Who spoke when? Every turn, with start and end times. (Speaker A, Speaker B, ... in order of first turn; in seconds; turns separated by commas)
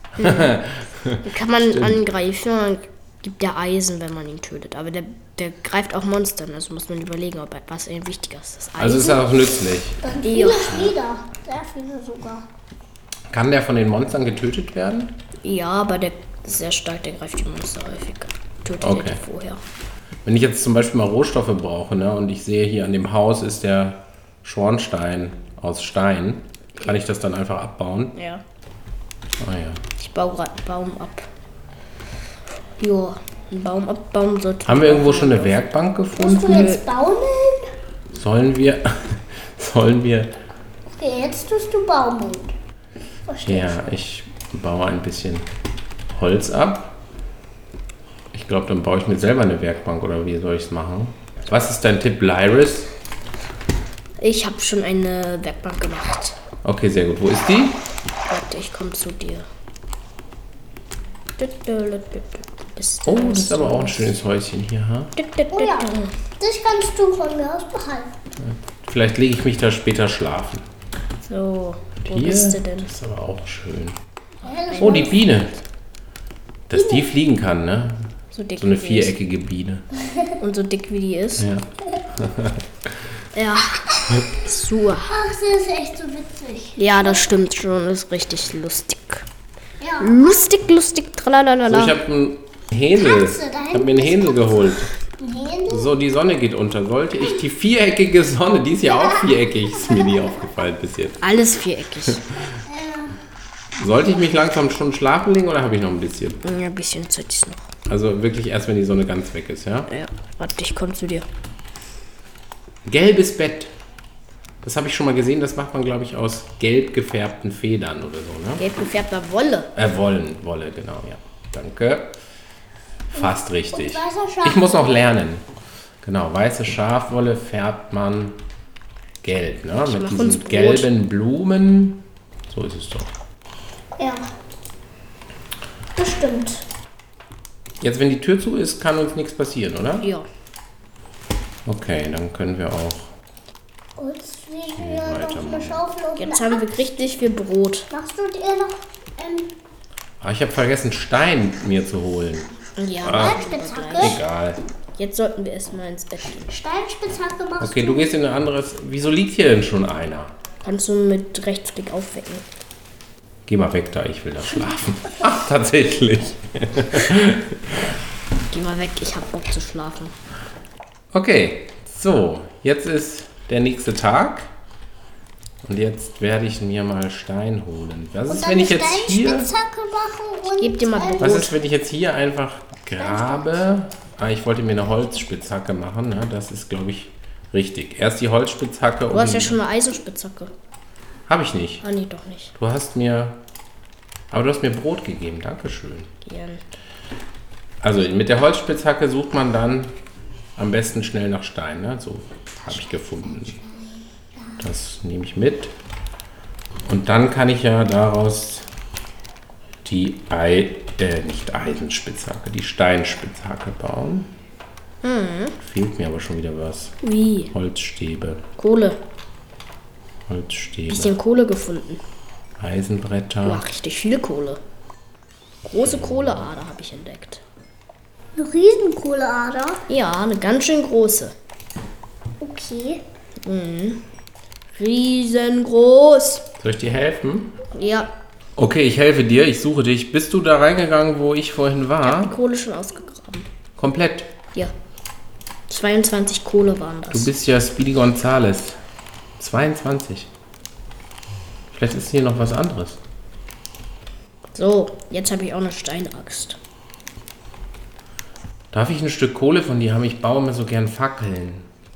Speaker A: 0.2-0.5, Speaker B: 0.2-2.0, Speaker A: 1.2-9.2, Speaker B: 8.8-10.1, Speaker C: 10.0-12.4, Speaker A: 10.2-10.9, Speaker B: 13.3-15.2, Speaker A: 15.4-19.6, Speaker B: 18.8-19.2, Speaker B: 20.2-28.2, Speaker A: 28.1-28.4, Speaker B: 29.4-29.8, Speaker A: 30.0-31.3, Speaker A: 32.8-35.7, Speaker B: 34.7-36.7, Speaker C: 36.2-37.7, Speaker A: 36.3-36.8, Speaker B: 38.1-40.3, Speaker C: 40.9-42.5, Speaker C: 43.3-43.8, Speaker B: 43.5-45.5, Speaker B: 46.1-47.0, Speaker B: 48.3-52.9, Speaker A: 54.2-56.4, Speaker B: 56.6-57.8, Speaker A: 58.3-59.5, Speaker A: 61.4-64.2, Speaker B: 63.1-65.2, Speaker A: 65.2-66.1, Speaker C: 65.5-68.1, Speaker B: 68.4-70.6, Speaker A: 71.2-72.9, Speaker B: 72.0-74.0, Speaker C: 74.5-75.2, Speaker A: 74.7-75.2, Speaker B: 74.8-75.6, Speaker B: 76.7-79.9, Speaker C: 76.7-77.1, Speaker A: 78.3-79.1, Speaker A: 80.4-81.5, Speaker B: 81.4-82.6, Speaker A: 83.3-85.1, Speaker C: 85.1-87.3, Speaker A: 86.8-89.3, Speaker C: 89.8-90.5, Speaker A: 90.0-92.0, Speaker B: 91.7-94.9, Speaker C: 93.0-95.9, Speaker B: 95.7-101.2, Speaker C: 99.9-100.2, Speaker A: 101.2-102.2, Speaker C: 102.7-103.2, Speaker B: 103.8-106.4, Speaker A: 106.4-107.6, Speaker B: 107.9-109.9, Speaker A: 109.9-111.3, Speaker B: 112.9-113.7, Speaker B: 114.6-118.6, Speaker A: 118.6-119.7, Speaker B: 119.8-122.1, Speaker B: 123.1-125.5, Speaker C: 123.2-124.7, Speaker B: 126.0-128.4, Speaker B: 129.2-133.1, Speaker A: 129.9-130.9, Speaker C: 134.0-134.2, Speaker C: 136.0-136.7, Speaker B: 137.8-140.1, Speaker A: 140.0-140.3, Speaker B: 141.7-143.1, Speaker C: 144.0-146.6, Speaker B: 144.8-145.8, Speaker A: 146.2-147.9, Speaker C: 147.9-149.5, Speaker B: 150.2-154.6, Speaker A: 152.8-154.2, Speaker C: 153.0-154.2, Speaker A: 155.0-156.5, Speaker C: 156.5-158.1, Speaker B: 157.6-160.3, Speaker A: 160.6-162.4, Speaker B: 163.5-167.8, Speaker A: 168.5-170.1, Speaker B: 171.1-174.5, Speaker B: 175.6-179.5, Speaker C: 178.3-181.5, Speaker A: 180.6-181.5, Speaker B: 181.2-189.6, Speaker C: 183.0-183.4, Speaker A: 189.1-190.5, Speaker B: 191.3-191.8, Speaker A: 191.8-192.5, Speaker B: 192.6-193.4, Speaker B: 194.3-196.1, Speaker A: 196.2-196.6, Speaker B: 197.8-199.9, Speaker B: 200.6-203.6, Speaker C: 203.4-203.9, Speaker B: 204.6-205.7, Speaker B: 206.9-208.7, Speaker B: 209.8-214.3, Speaker A: 215.0-215.6, Speaker B: 215.6-216.9, Speaker A: 217.0-217.5, Speaker B: 217.5-218.4, Speaker A: 218.6-219.0, Speaker B: 220.3-221.2, Speaker A: 220.9-222.0, Speaker B: 222.6-223.6, Speaker A: 223.4-224.6, Speaker A: 225.6-227.4, Speaker B: 225.8-226.5, Speaker C: 228.4-229.8, Speaker A: 229.9-231.3, Speaker C: 232.4-233.0, Speaker A: 233.4-234.0, Speaker A: 234.7-236.5, Speaker B: 236.6-237.6, Speaker A: 237.7-238.1, Speaker B: 238.6-242.4, Speaker A: 242.0-243.5, Speaker B: 243.8-244.3, Speaker A: 245.7-247.3, Speaker B: 247.1-248.8, Speaker B: 249.4-250.3, Speaker B: 251.7-253.0, Speaker A: 254.5-256.6, Speaker B: 258.7-261.7